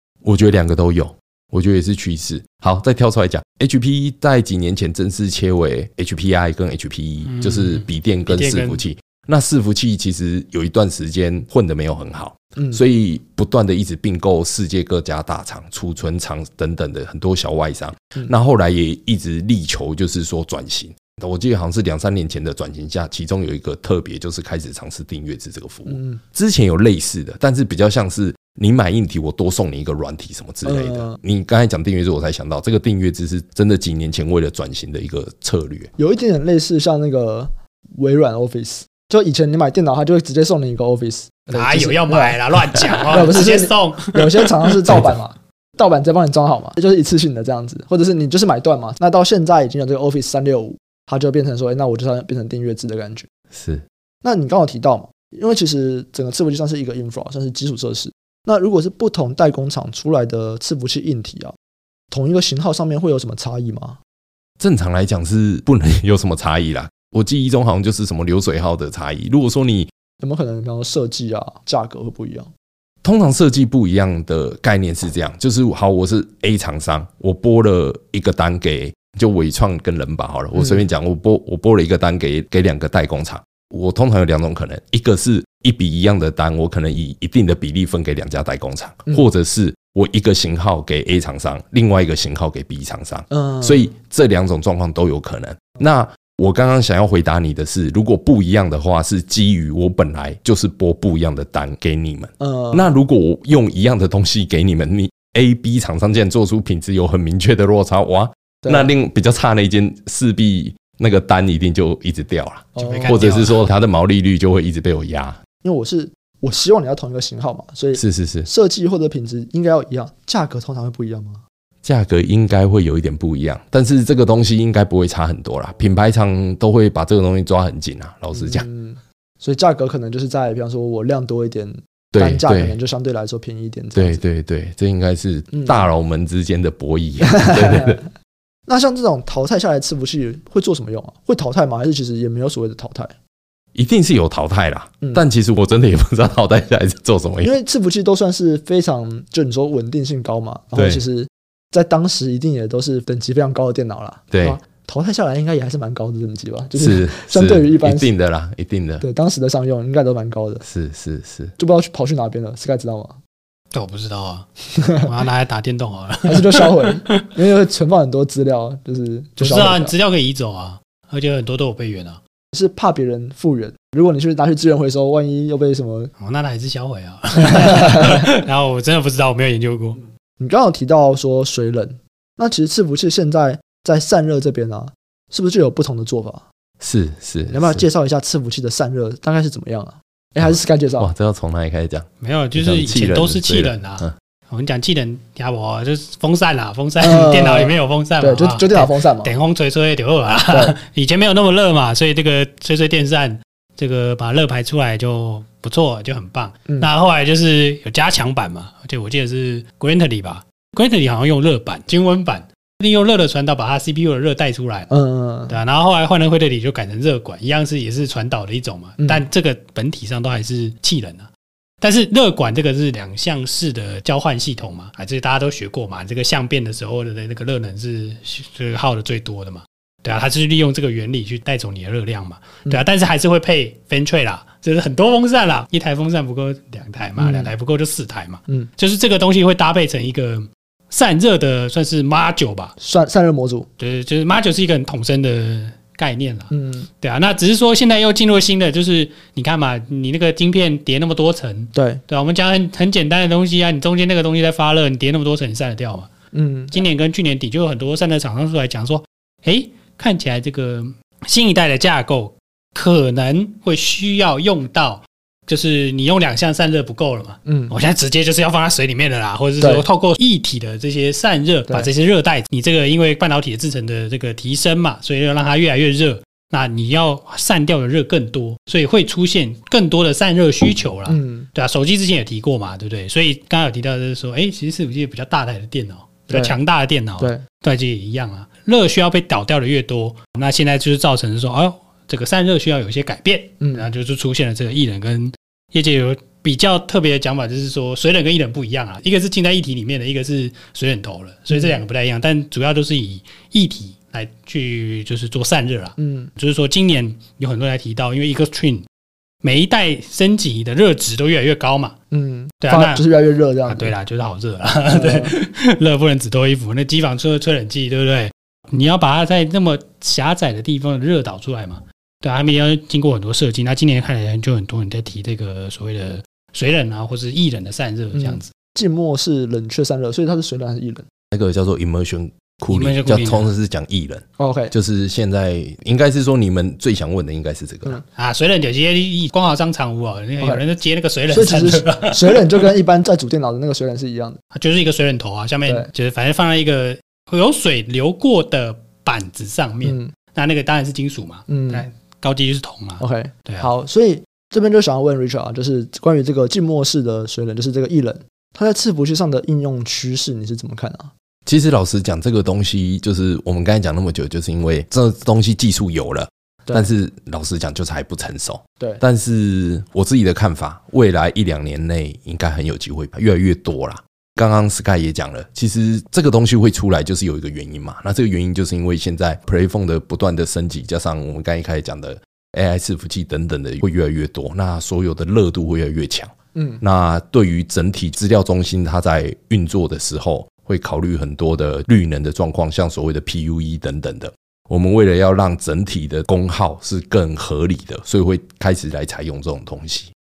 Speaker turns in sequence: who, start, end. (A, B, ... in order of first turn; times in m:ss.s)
0:00.2-0:35.9 A
0:07.2-0:08.8 B
0:12.6-0:12.8 C
0:25.9-0:26.2 C
0:30.6-0:31.2 C
0:36.0-0:53.3 C
0:41.5-0:45.0 B
0:53.5-0:53.8 A
0:54.2-1:01.6 C
1:02.1-1:04.0 C
1:04.6-1:09.9 A
1:10.2-1:12.5 C
1:13.0-1:55.4 A
1:20.6-1:20.8 C
1:33.3-1:33.9 C
1:42.4-1:42.9 C
1:48.6-1:48.9 C
1:52.8-1:53.3 C
1:52.8-1:53.6 B
1:55.6-2:01.4 C
1:58.0-1:58.5 A
2:01.8-2:08.7 A
2:08.3-2:14.2 C
2:12.1-2:12.8 A
2:14.0-2:18.0 A
2:15.5-2:15.9 C
2:17.2-2:18.1 C
2:18.7-2:23.1 C
2:23.8-2:27.5 A
2:27.4-2:38.1 C
2:30.8-2:31.0 A
2:34.3-2:34.6 A
2:36.8-2:39.0 A
2:39.0-2:40.6 C
2:40.6-2:41.6 A
2:41.6-2:43.2 C
2:43.7-2:47.2 B
2:44.8-2:45.1 C
2:46.2-2:49.9 C
2:49.4-2:52.2 B
2:52.5-2:56.1 C
2:56.2-3:00.0 B
2:57.4-2:58.3 C
3:00.4-3:06.4 C
3:06.8-3:07.8 A
3:07.5-3:11.1 C
3:10.4-3:14.1 A
3:12.2-3:34.9 B
3:17.0-3:19.3 C
3:20.5-3:20.8 C
3:34.9-3:35.6 C
3:35.5-3:41.3 B
3:39.0-3:39.2 C
3:41.8-4:02.7 B
3:57.2-3:57.5 C
4:02.8-4:03.7 C
4:03.8-4:16.1 B
4:06.5-4:06.9 C
4:11.7-4:12.0 C
4:16.3-4:16.8 C
4:16.7-5:08.9 B
4:27.5-4:27.7 C
4:41.1-4:41.5 C
4:53.6-4:53.9 C
5:01.5-5:01.8 C
5:06.0-5:06.3 C
5:09.4-5:12.0 B
5:12.1-5:13.9 C
5:12.6-5:13.0 B
5:13.7-5:28.5 B
5:14.9-5:15.4 C
5:28.1-5:31.1 C
5:31.3-5:38.0 A
5:32.7-5:33.5 B
5:34.4-5:34.7 C
5:38.1-5:42.7 B
5:41.3-5:44.4 C
5:44.5-5:53.7 B
5:49.8-5:50.1 C
5:51.5-5:51.8 C
5:53.0-6:01.1 C
6:01.5-6:40.1 A
6:26.5-6:26.8 C